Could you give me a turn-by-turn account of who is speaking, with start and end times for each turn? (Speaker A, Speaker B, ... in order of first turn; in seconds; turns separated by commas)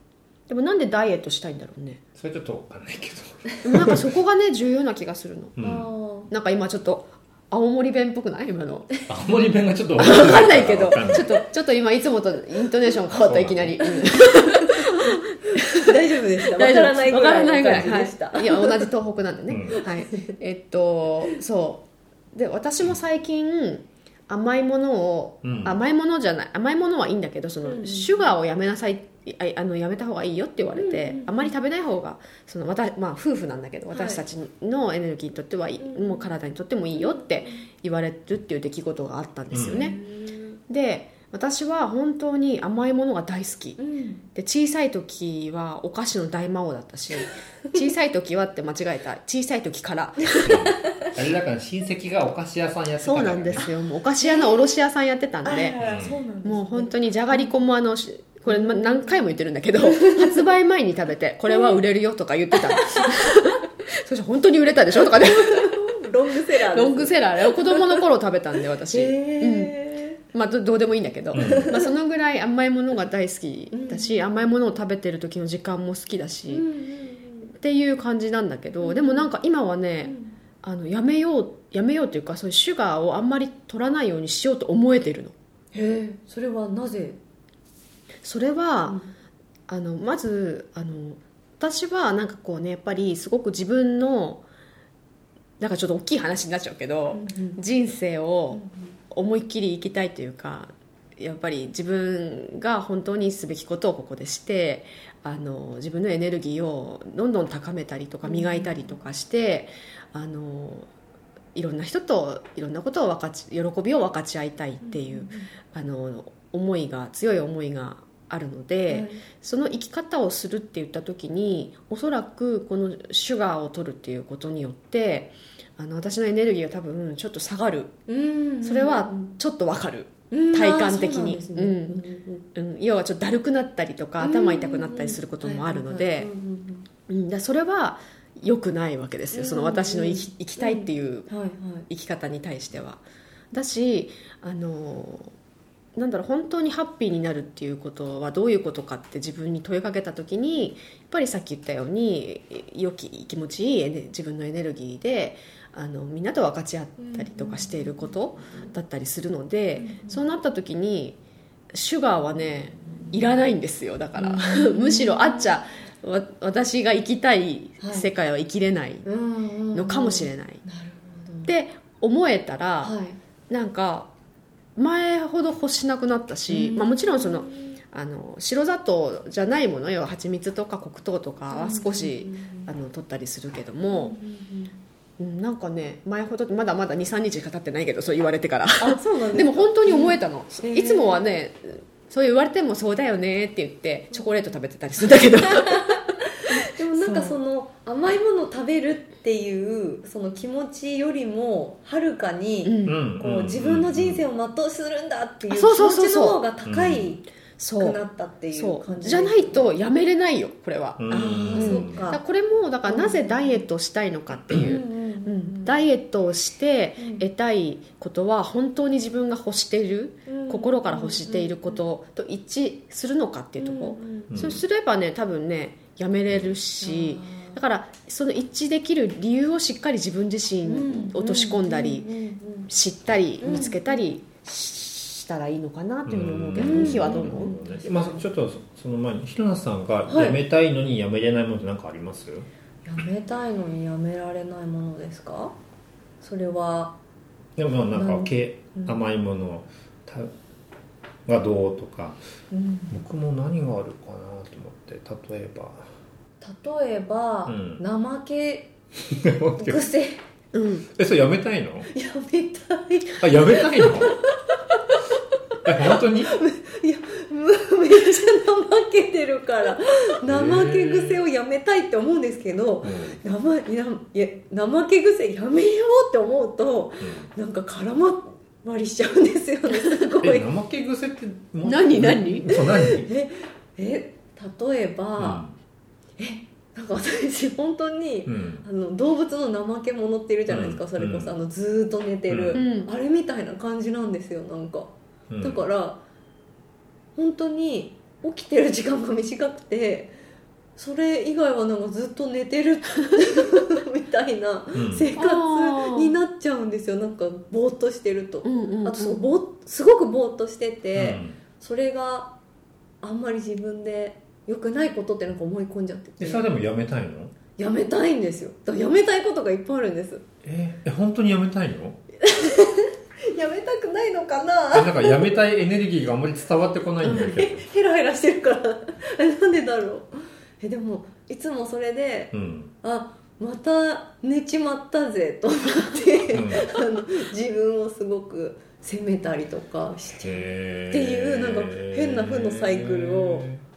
Speaker A: 0.5-2.0, Speaker B: 2.1-4.1, Speaker A: 3.6-5.6, Speaker B: 5.6-5.9, Speaker C: 5.6-6.3, Speaker A: 6.3-9.0, Speaker B: 9.1-11.4, Speaker A: 10.0-40.0, Speaker B: 13.1-13.9, Speaker C: 13.8-14.9, Speaker C: 15.7-18.9, Speaker B: 19.5-19.8, Speaker C: 19.8-20.4, Speaker B: 25.4-25.8, Speaker C: 27.6-28.3, Speaker C: 30.8-31.5, Speaker C: 33.9-34.2, Speaker C: 35.8-36.3, Speaker C: 37.0-37.6, Speaker B: 39.5-39.9, Speaker C: 39.7-40.6, Speaker A: 40.7-43.8, Speaker C: 43.8-44.2, Speaker A: 44.4-50.5, Speaker B: 50.5-53.7, Speaker A: 53.0-55.8, Speaker C: 54.2-54.7, Speaker C: 55.4-57.5, Speaker B: 55.8-56.2, Speaker A: 56.4-65.9, Speaker C: 58.5-59.2, Speaker C: 59.8-60.5, Speaker C: 61.5-61.8, Speaker C: 62.6-63.4, Speaker C: 65.0-68.0, Speaker A: 66.7-69.8, Speaker C: 68.9-70.2, Speaker A: 70.3-76.6, Speaker B: 71.3-71.7, Speaker C: 71.3-71.9, Speaker C: 73.7-74.3, Speaker C: 76.5-77.5, Speaker A: 77.6-85.3, Speaker C: 78.8-79.3, Speaker C: 80.0-80.3, Speaker C: 85.7-87.2, Speaker A: 88.2-89.0, Speaker A: 89.7-94.4, Speaker A: 95.6-110.9, Speaker C: 97.1-97.6, Speaker C: 98.5-98.9, Speaker C: 108.2-109.0, Speaker A: 111.5-127.9, Speaker C: 114.8-115.5, Speaker C: 118.9-119.2, Speaker C: 128.1-129.4, Speaker A: 128.6-132.0, Speaker C: 130.3-132.5, Speaker A: 132.5-136.3, Speaker C: 134.2-136.9, Speaker A: 137.1-141.3, Speaker C: 139.3-141.9, Speaker A: 141.9-143.0, Speaker A: 143.5-145.3, Speaker A: 146.0-161.2, Speaker C: 157.0-158.1, Speaker C: 159.8-160.2, Speaker A: 161.7-169.1, Speaker C: 164.2-165.6, Speaker C: 167.8-168.1, Speaker C: 169.0-171.5, Speaker A: 169.7-170.6, Speaker A: 171.5-172.9, Speaker C: 172.8-173.2, Speaker A: 173.5-174.1, Speaker A: 174.8-184.2, Speaker C: 176.5-177.7, Speaker C: 181.5-182.7, Speaker C: 183.9-184.8, Speaker A: 185.2-197.4, Speaker C: 188.8-191.3, Speaker C: 195.6-207.2, Speaker A: 202.6-203.0, Speaker B: 202.9-204.3, Speaker A: 205.5-206.4, Speaker B: 206.6-207.1, Speaker A: 207.6-208.0, Speaker C: 207.8-209.7, Speaker A: 208.5-232.1, Speaker B: 211.0-212.1, Speaker C: 211.1-212.2, Speaker C: 212.8-213.6, Speaker B: 214.3-214.7, Speaker C: 214.5-215.8, Speaker C: 217.0-217.2, Speaker C: 220.3-221.8, Speaker C: 223.6-224.3, Speaker B: 224.3-224.6, Speaker C: 226.8-227.6, Speaker C: 230.7-232.7, Speaker A: 232.7-237.6, Speaker C: 233.4-234.0, Speaker B: 236.1-242.5, Speaker C: 236.5-238.2, Speaker C: 240.1-240.4, Speaker C: 242.8-245.6, Speaker C: 246.2-247.0, Speaker B: 247.6-250.3, Speaker C: 247.9-249.0, Speaker B: 251.2-252.2, Speaker C: 252.5-253.0, Speaker B: 252.9-255.9, Speaker C: 256.4-258.7, Speaker B: 257.5-257.8, Speaker B: 259.0-259.8, Speaker C: 259.6-260.2, Speaker A: 260.5-260.9, Speaker B: 260.9-261.9, Speaker C: 261.9-265.0, Speaker B: 263.2-264.2, Speaker B: 265.6-266.4, Speaker C: 265.7-280.5, Speaker B: 270.2-271.2, Speaker B: 272.8-273.2, Speaker B: 277.0-277.3, Speaker B: 280.2-283.1, Speaker A: 281.6-282.5, Speaker C: 282.5-285.4, Speaker B: 285.2-285.5, Speaker C: 286.2-296.0, Speaker B: 288.2-288.6, Speaker B: 290.5-291.4, Speaker B: 292.3-292.6, Speaker A: 292.5-292.9, Speaker B: 295.3-295.6, Speaker C: 297.1-300.1, Speaker C: 300.8-312.4, Speaker B: 304.7-305.1, Speaker A: 305.2-306.1, Speaker A: 308.4-309.3, Speaker B: 310.9-311.4, Speaker C: 313.0-316.5, Speaker B: 316.2-317.3, Speaker C: 317.6-320.2, Speaker B: 320.4-322.0, Speaker C: 322.2-325.4, Speaker B: 324.7-327.6, Speaker C: 327.0-343.5, Speaker A: 327.0-327.3, Speaker B: 332.3-332.7, Speaker B: 336.3-336.7, Speaker B: 340.2-343.6